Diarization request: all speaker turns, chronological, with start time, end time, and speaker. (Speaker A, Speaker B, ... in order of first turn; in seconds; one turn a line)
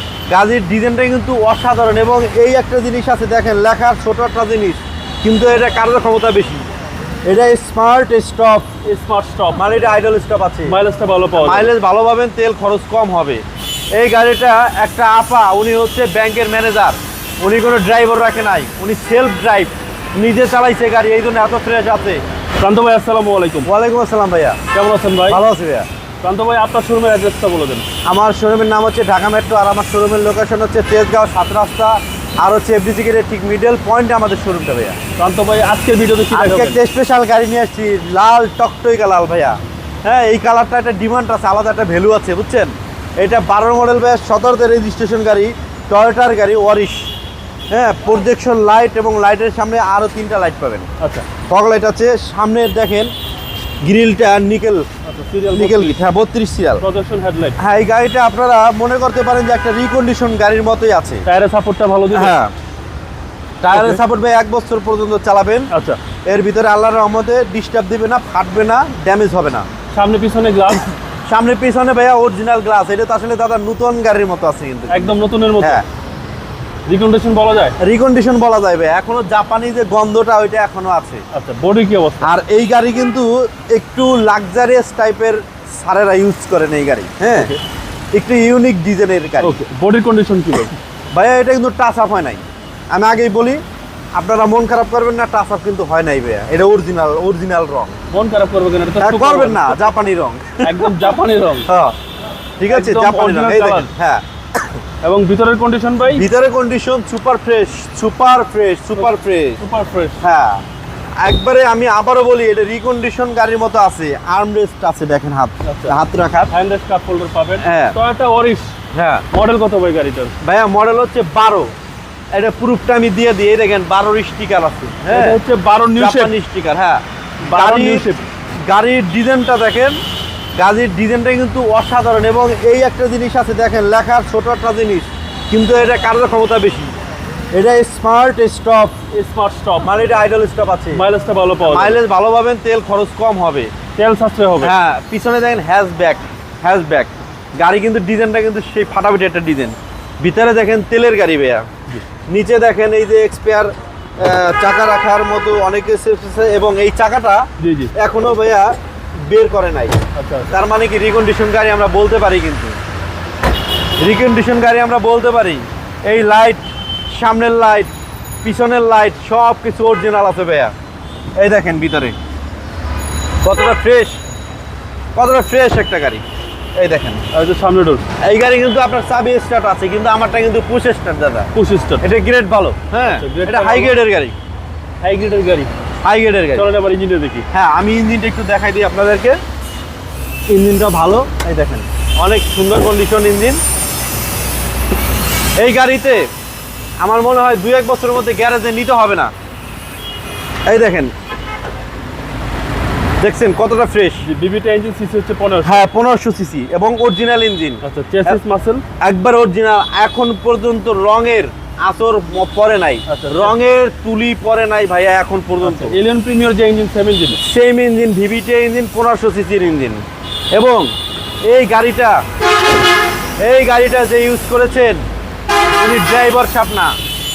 Speaker A: 0.3-6.7
Speaker A: 7.3-8.7
Speaker B: 8.8-9.9
Speaker A: 9.6-10.8
Speaker B: 10.7-11.7
Speaker A: 11.4-13.4
Speaker A: 13.9-22.2
Speaker B: 22.6-23.7
Speaker A: 23.6-24.6
Speaker B: 24.7-25.4
Speaker A: 25.3-25.9
Speaker B: 26.2-27.9
Speaker A: 28.1-35.0
Speaker B: 35.2-36.8
Speaker A: 36.3-47.1
Speaker A: 47.7-50.9
Speaker B: 51.0-51.3
Speaker A: 51.5-53.1
Speaker A: 53.8-54.9
Speaker B: 55.0-56.0
Speaker A: 55.5-56.8
Speaker B: 56.8-57.6
Speaker A: 57.6-61.2
Speaker B: 61.3-62.4
Speaker A: 62.1-62.5
Speaker A: 63.6-65.7
Speaker B: 63.7-64.0
Speaker B: 65.7-66.0
Speaker A: 66.3-69.7
Speaker B: 69.9-70.9
Speaker A: 71.3-75.8
Speaker B: 74.9-75.8
Speaker B: 76.9-77.8
Speaker A: 77.8-81.2
Speaker B: 81.3-82.3
Speaker A: 82.2-87.5
Speaker A: 88.1-89.6
Speaker B: 89.4-90.8
Speaker A: 91.1-93.6
Speaker A: 94.2-98.0
Speaker B: 98.1-99.8
Speaker A: 99.0-101.1
Speaker B: 100.6-101.7
Speaker A: 101.7-102.0
Speaker A: 102.6-104.2
Speaker B: 102.7-103.9
Speaker B: 105.0-106.2
Speaker A: 106.1-109.6
Speaker B: 109.0-110.2
Speaker A: 110.2-110.6
Speaker A: 111.2-116.5
Speaker B: 115.7-116.0
Speaker B: 116.5-118.8
Speaker A: 117.6-118.0
Speaker A: 118.9-119.2
Speaker B: 119.3-120.3
Speaker A: 120.4-121.7
Speaker A: 122.3-125.4
Speaker B: 125.1-126.3
Speaker A: 126.0-128.1
Speaker B: 127.4-128.2
Speaker A: 128.7-130.0
Speaker A: 130.6-136.9
Speaker A: 137.5-139.0
Speaker B: 139.1-140.2
Speaker A: 139.8-141.0
Speaker B: 140.9-142.0
Speaker A: 141.6-143.7
Speaker B: 143.9-144.7
Speaker A: 144.6-151.7
Speaker A: 152.3-162.8
Speaker B: 157.6-157.9
Speaker B: 160.2-160.5
Speaker A: 164.0-170.7
Speaker A: 171.4-172.2
Speaker A: 173.4-174.2
Speaker A: 175.2-176.2
Speaker A: 176.8-177.2
Speaker B: 177.3-178.1
Speaker A: 178.2-184.4
Speaker B: 181.5-182.0
Speaker B: 183.2-183.9
Speaker B: 185.0-185.7
Speaker A: 186.0-186.7
Speaker B: 186.5-187.5
Speaker A: 187.5-189.4
Speaker A: 190.5-193.6
Speaker A: 195.6-196.3
Speaker A: 197.0-199.3
Speaker A: 200.7-201.1
Speaker A: 203.2-204.3
Speaker B: 204.2-205.9
Speaker A: 205.6-208.4
Speaker B: 207.8-208.8
Speaker A: 209.0-216.0
Speaker B: 213.1-213.6
Speaker B: 215.6-217.4
Speaker A: 217.4-220.0
Speaker A: 220.5-220.9
Speaker A: 221.5-222.2
Speaker A: 223.4-225.0
Speaker A: 225.8-226.9